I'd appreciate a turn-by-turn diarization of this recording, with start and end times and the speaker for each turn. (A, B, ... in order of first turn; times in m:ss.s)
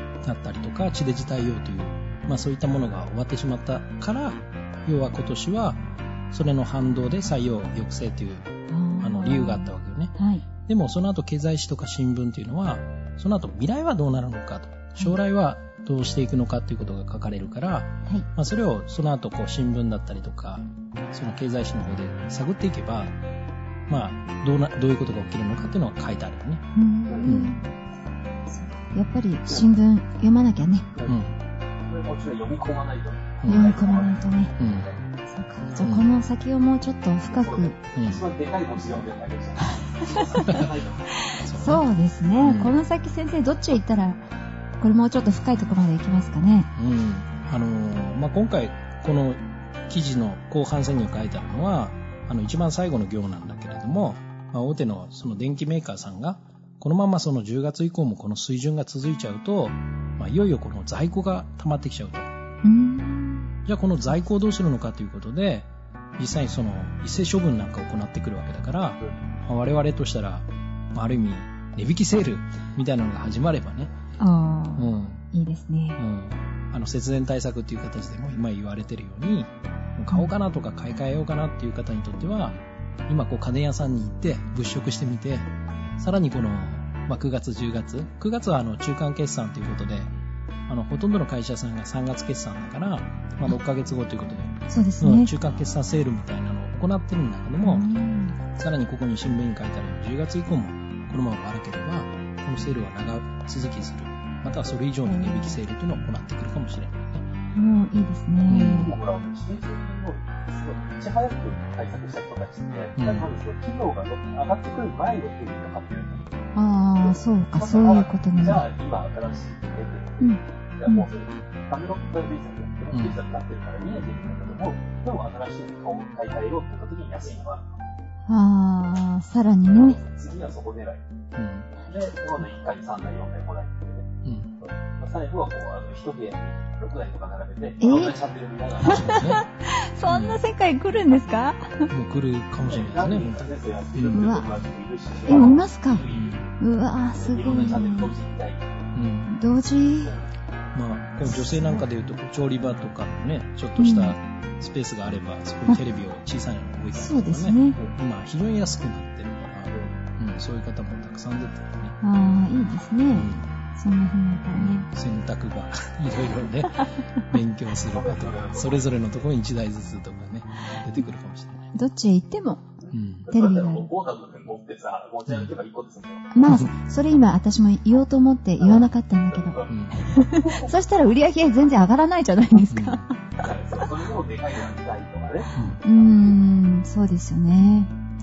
0:00.2-0:10.1 A
0:08.7-0:10.4 B
0:10.6-0:23.2 A
0:23.9-0:26.6 A
0:26.7-0:27.7 B
0:27.1-0:27.4 C
0:27.2-0:27.5 A
0:28.5-0:30.8 B
0:31.0-0:31.4 A
0:31.8-0:34.2 C
0:33.4-0:33.8 A
0:33.4-0:34.5 B
0:34.6-0:35.0 A
0:35.3-0:37.7 B
0:35.7-0:36.0 A
0:37.3-0:41.1 C
0:37.9-0:38.2 A
0:39.7-0:40.5 B
0:41.2-0:44.2 B
0:41.4-0:41.8 A
0:42.4-0:42.7 A
0:44.8-0:46.7 B
0:46.7-1:02.3 A
1:02.6-1:03.5 B
1:03.6-1:13.9 A
1:14.2-1:16.0 B
1:14.8-1:15.2 A
1:16.0-1:22.6 A
1:23.1-1:30.1 A
1:30.7-1:37.9 A
1:34.7-1:35.3 B
1:37.6-1:38.4 B
1:38.5-1:47.3 A
1:45.0-1:45.6 B
1:47.5-1:48.9 B
1:48.5-1:48.9 A
1:48.6-1:56.3 C
1:53.0-1:53.3 A
1:56.5-1:58.6 B
1:56.9-2:07.8 C
2:00.2-2:01.1 B
2:02.9-2:03.2 A
2:08.3-2:10.0 B
2:09.7-2:11.0 C
2:11.4-2:11.7 A
2:11.8-2:14.1 C
2:14.2-2:14.5 A
2:14.6-2:19.2 C
2:17.8-2:18.2 B
2:18.8-2:21.9 B
2:18.8-2:19.4 A
2:20.1-2:20.4 A
2:21.9-2:24.2 A
2:22.6-2:26.5 C
2:24.1-2:24.5 B
2:25.3-2:26.0 B
2:26.1-2:26.5 A
2:26.6-2:28.1 B
2:27.1-2:28.9 C
2:28.9-2:29.3 A
2:29.3-2:30.1 B
2:30.0-2:30.3 C
2:30.7-2:42.0 A
2:31.2-2:31.8 B
2:33.8-2:34.2 B
2:36.9-2:37.8 B
2:39.7-2:40.0 C
2:42.0-2:44.8 B
2:43.1-2:43.5 A
2:44.5-2:51.7 A
2:47.9-2:49.1 C
2:51.7-2:52.7 B
2:52.8-2:56.3 C
2:52.9-2:53.3 A
2:53.3-2:53.9 B
2:56.3-3:03.4 B
2:58.6-3:00.9 C
2:59.7-3:00.0 A
3:02.7-3:03.1 A
3:03.4-3:06.4 C
3:05.8-3:07.9 B